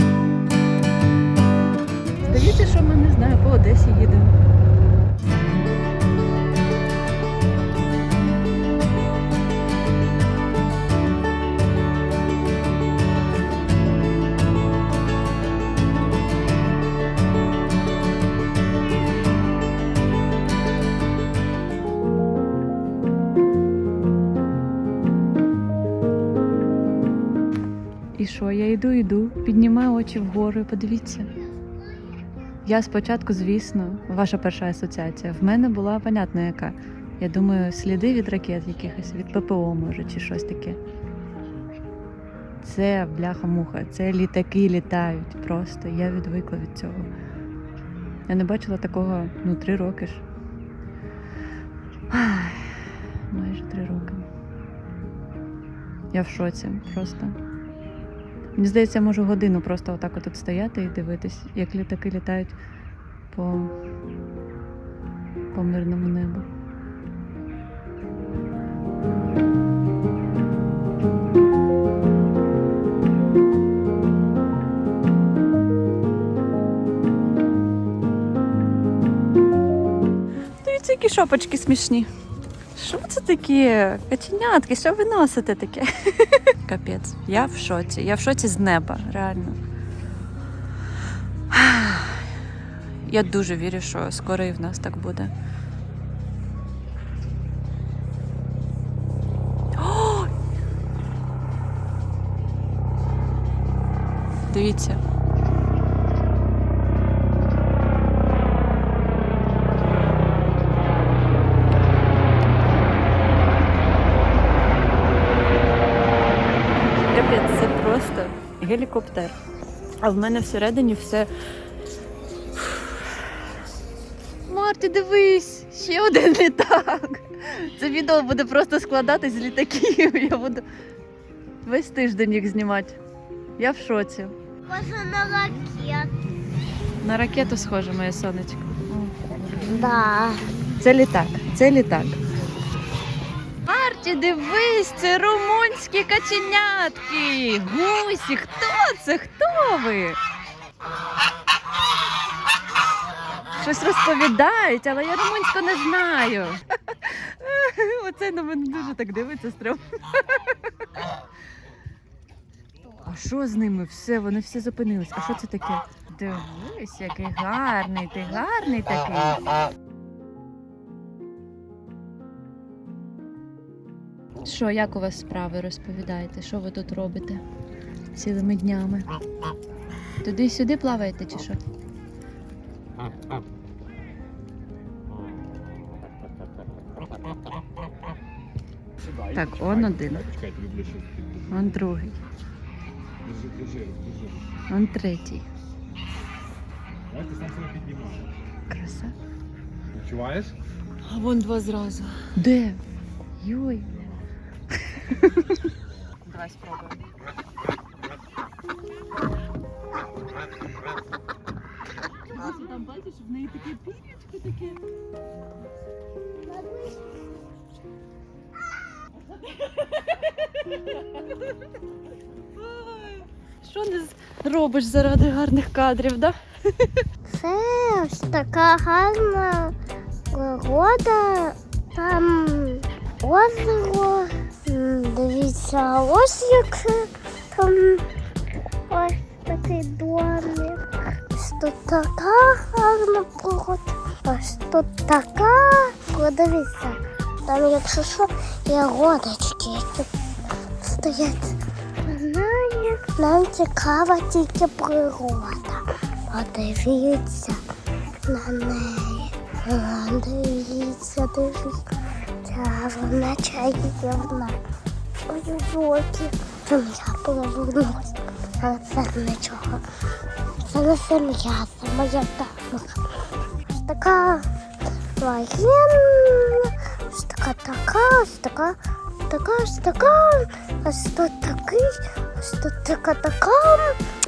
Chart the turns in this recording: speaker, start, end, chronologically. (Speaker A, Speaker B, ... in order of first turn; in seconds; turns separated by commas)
Speaker A: 2.2-4.3, Speaker A: 28.1-31.3, Speaker A: 32.6-40.8, Speaker A: 42.6-47.1, Speaker A: 48.3-50.2, Speaker A: 52.1-54.3, Speaker A: 56.1-57.4, Speaker A: 58.5-62.6, Speaker A: 63.3-63.7, Speaker A: 65.5-66.5, Speaker A: 80.6-82.1, Speaker A: 82.7-89.6, Speaker A: 91.5-92.3, Speaker A: 93.0-95.3, Speaker A: 99.8-100.3, Speaker A: 104.5-105.0, Speaker A: 116.9-119.4, Speaker A: 120.0-121.3, Speaker A: 122.6-123.2, Speaker A: 124.5-130.6, Speaker A: 131.6-133.0, Speaker A: 133.6-134.3, Speaker B: 134.7-136.1, Speaker A: 137.0-139.3, Speaker B: 139.6-140.4, Speaker A: 140.7-142.2, Speaker A: 143.7-150.2, Speaker A: 153.6-160.4, Speaker A: 163.0-169.5, Speaker A: 174.4-177.4, Speaker A: 178.1-179.1, Speaker A: 180.2-181.6, Speaker C: 189.0-191.8, Speaker A: 189.3-190.2, Speaker A: 191.5-192.2, Speaker C: 193.2-194.6, Speaker A: 194.7-195.5, Speaker C: 197.1-198.3, Speaker A: 198.7-199.1, Speaker C: 199.9-200.5, Speaker A: 201.0-202.8, Speaker A: 203.4-203.9, Speaker A: 204.9-205.6, Speaker A: 206.2-207.0, Speaker A: 212.3-214.8, Speaker A: 222.6-227.0, Speaker B: 227.3-229.7, Speaker B: 230.3-238.1, Speaker B: 238.9-250.1, Speaker B: 250.8-257.6, Speaker B: 258.2-264.6, Speaker B: 265.3-269.8, Speaker B: 270.6-273.2, Speaker B: 273.7-274.4, Speaker B: 275.2-284.0